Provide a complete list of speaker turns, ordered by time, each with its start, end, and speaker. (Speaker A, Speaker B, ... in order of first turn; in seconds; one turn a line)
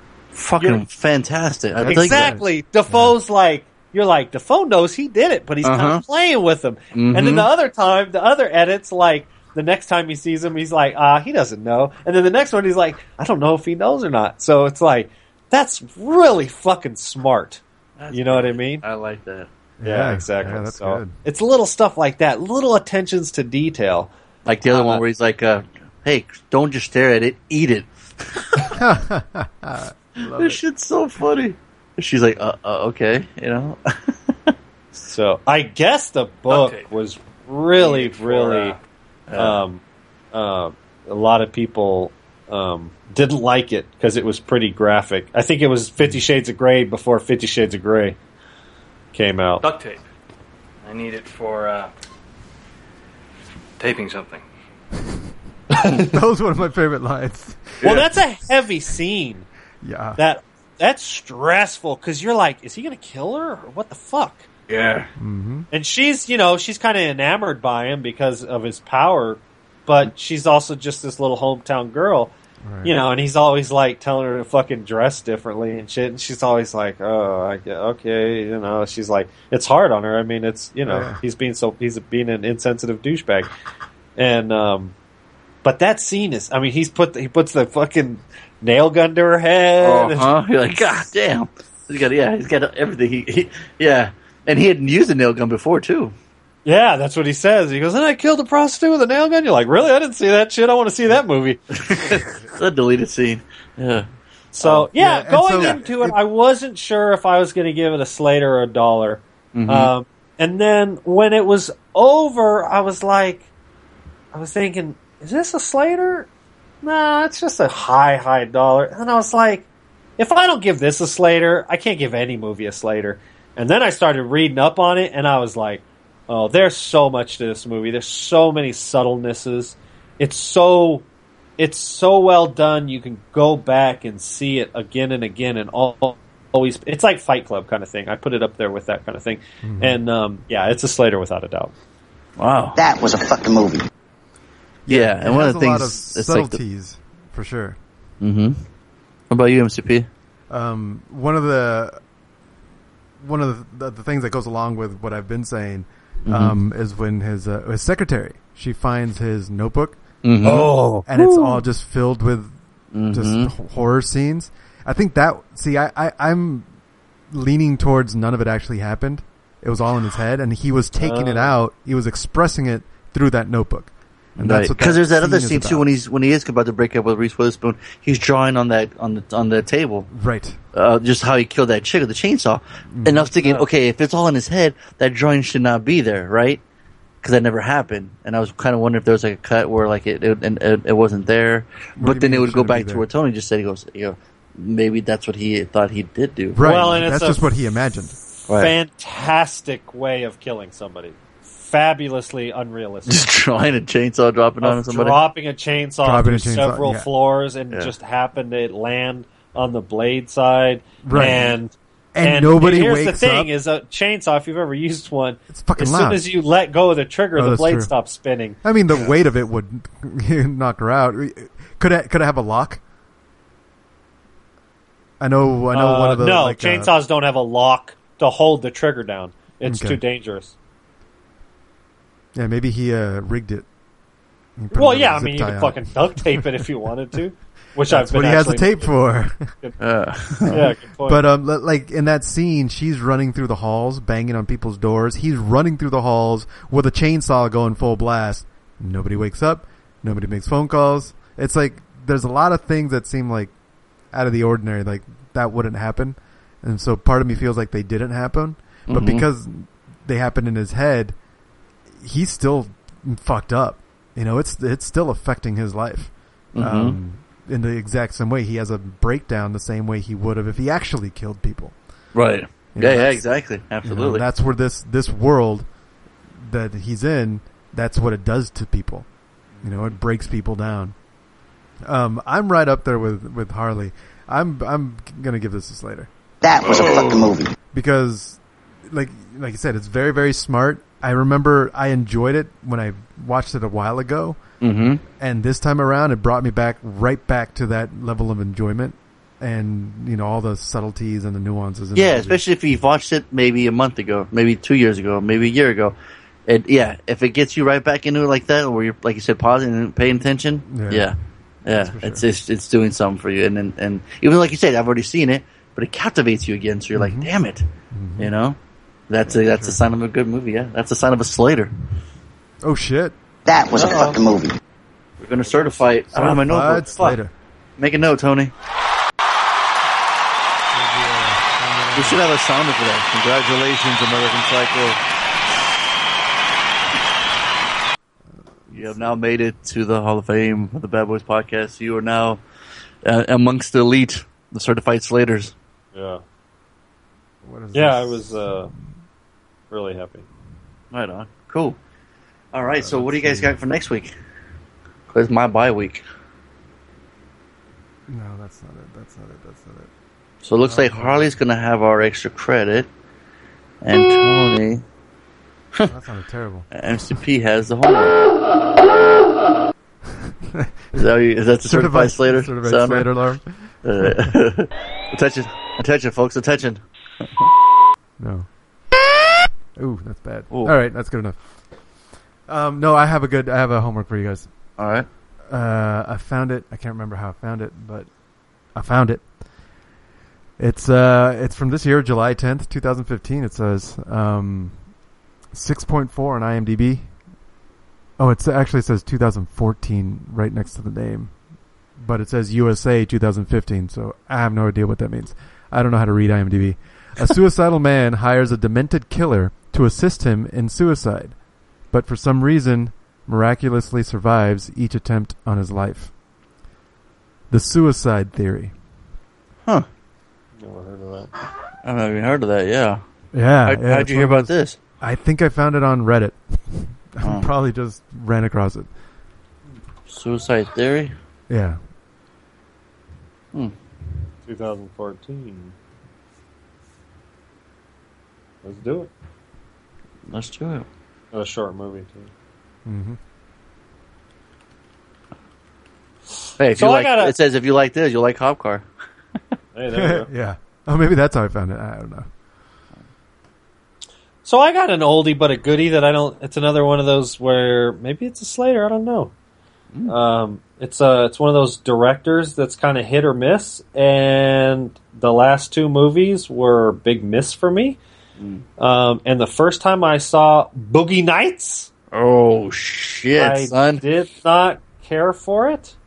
Speaker A: 0.3-2.3
Speaker B: 0.6-0.8
Speaker C: 1.8-3.1
Speaker B: 1.8-18.8
Speaker A: 5.6-6.0
Speaker A: 6.9-7.5
Speaker A: 18.0-19.5
Speaker C: 19.8-21.1
Speaker B: 19.8-24.1
Speaker A: 24.4-28.8
Speaker B: 24.6-25.0
Speaker C: 28.7-30.6
Speaker A: 30.2-33.9
Speaker B: 35.0-38.8
Speaker A: 37.8-38.6
Speaker A: 39.3-39.6
Speaker B: 39.4-39.8
Speaker B: 40.3-48.2
Speaker B: 49.1-49.6
Speaker D: 49.6-50.0
Speaker D: 50.8-51.9
Speaker D: 53.8-54.4
Speaker B: 55.7-56.1
Speaker C: 55.8-58.0
Speaker B: 57.8-59.5
Speaker C: 59.8-60.2
Speaker B: 60.2-64.5
Speaker A: 64.7-65.0
Speaker C: 65.2-65.7
Speaker B: 65.7-83.5
Speaker C: 72.6-72.9
Speaker C: 80.8-81.2
Speaker B: 84.2-84.9
Speaker B: 85.6-90.3
Speaker A: 89.8-96.1
Speaker B: 96.6-101.6
Speaker A: 101.7-104.0
Speaker B: 104.5-113.5
Speaker C: 104.9-106.2
Speaker A: 109.5-109.9
Speaker B: 114.3-116.3
Speaker B: 116.8-119.7
Speaker B: 120.2-131.0
Speaker B: 131.6-141.7
Speaker C: 139.6-140.0
Speaker A: 142.4-142.8
Speaker E: 142.8-143.8
Speaker C: 144.8-147.8
Speaker A: 144.9-146.6
Speaker A: 148.2-148.6
Speaker A: 149.3-150.1
Speaker C: 150.5-152.0
Speaker C: 153.2-160.0
Speaker A: 156.2-156.6
Speaker A: 160.2-161.5
Speaker B: 160.4-161.1
Speaker C: 161.1-162.5
Speaker A: 162.9-163.5
Speaker C: 163.1-166.7
Speaker C: 167.3-175.8
Speaker B: 171.0-171.5
Speaker A: 174.4-180.1
Speaker C: 180.1-180.6
Speaker A: 180.7-186.6
Speaker C: 182.9-183.6
Speaker A: 187.2-196.6
Speaker C: 192.0-193.0
Speaker C: 196.5-198.2
Speaker B: 196.6-197.5
Speaker A: 198.5-198.7
Speaker B: 198.5-203.2
Speaker A: 203.1-205.2
Speaker B: 204.6-218.6
Speaker C: 206.0-207.1
Speaker C: 211.0-211.5
Speaker A: 211.1-211.5
Speaker C: 212.1-213.5
Speaker C: 215.5-216.2
Speaker C: 217.3-217.9
Speaker C: 218.6-222.8
Speaker C: 225.2-226.9
Speaker B: 225.7-230.5
Speaker C: 229.6-230.0
Speaker C: 232.3-233.7
Speaker C: 234.6-236.6
Speaker B: 234.7-238.9
Speaker C: 237.9-239.5
Speaker A: 239.8-240.6
Speaker B: 240.5-241.2
Speaker C: 240.5-253.5
Speaker C: 254.1-261.1
Speaker A: 258.9-259.2
Speaker C: 262.0-271.8
Speaker A: 266.5-267.0
Speaker A: 272.1-274.2
Speaker C: 272.7-273.2
Speaker C: 273.8-275.6
Speaker C: 276.4-279.1
Speaker C: 279.6-280.9
Speaker C: 281.9-286.1
Speaker E: 286.4-287.5
Speaker C: 287.7-294.4
Speaker A: 294.6-295.0
Speaker C: 295.1-302.4
Speaker A: 301.9-305.9
Speaker A: 306.5-317.6
Speaker C: 310.7-311.1
Speaker C: 311.7-312.2
Speaker C: 316.9-317.3
Speaker C: 317.9-318.3
Speaker A: 318.2-318.6
Speaker A: 319.1-321.7
Speaker C: 319.2-319.8
Speaker C: 322.6-323.1
Speaker E: 323.4-324.6
Speaker B: 323.8-324.1
Speaker A: 325.2-327.2
Speaker B: 325.4-326.0
Speaker C: 326.1-327.3
Speaker A: 327.8-328.5
Speaker C: 330.7-332.2
Speaker A: 331.9-335.0
Speaker C: 338.4-339.2
Speaker A: 338.7-342.4
Speaker A: 343.0-345.5
Speaker B: 345.9-346.2
Speaker C: 347.4-348.6
Speaker B: 347.7-348.7
Speaker B: 349.7-350.2
Speaker A: 350.9-351.8
Speaker A: 352.5-354.1
Speaker C: 352.8-353.5
Speaker A: 355.1-356.0
Speaker C: 358.1-359.9
Speaker A: 360.4-362.9
Speaker C: 360.6-361.4
Speaker A: 363.8-364.8
Speaker C: 365.9-366.7
Speaker A: 366.7-368.2
Speaker C: 370.2-371.0
Speaker A: 370.9-373.1
Speaker C: 371.6-374.4
Speaker A: 373.8-377.5
Speaker C: 378.2-378.5
Speaker C: 379.8-381.4
Speaker C: 382.5-384.5
Speaker A: 384.8-385.1
Speaker C: 385.5-388.1
Speaker C: 388.7-389.2
Speaker C: 390.6-394.8
Speaker C: 395.5-397.1
Speaker C: 398.2-401.3
Speaker C: 402.0-411.4
Speaker C: 411.9-416.1
Speaker C: 417.5-418.7
Speaker B: 420.6-421.3
Speaker A: 421.8-423.0
Speaker C: 423.3-428.9
Speaker A: 423.6-424.8
Speaker A: 427.2-427.5
Speaker A: 430.1-431.1
Speaker C: 431.5-431.8
Speaker B: 434.4-435.7
Speaker B: 438.6-439.1
Speaker A: 440.3-440.9
Speaker B: 441.3-442.3
Speaker C: 442.9-443.2
Speaker A: 446.6-448.8
Speaker B: 446.8-447.3
Speaker B: 449.7-450.3
Speaker C: 449.9-452.3
Speaker B: 454.4-459.3
Speaker B: 460.1-468.0
Speaker B: 468.8-471.9
Speaker A: 472.1-474.0
Speaker B: 473.3-475.9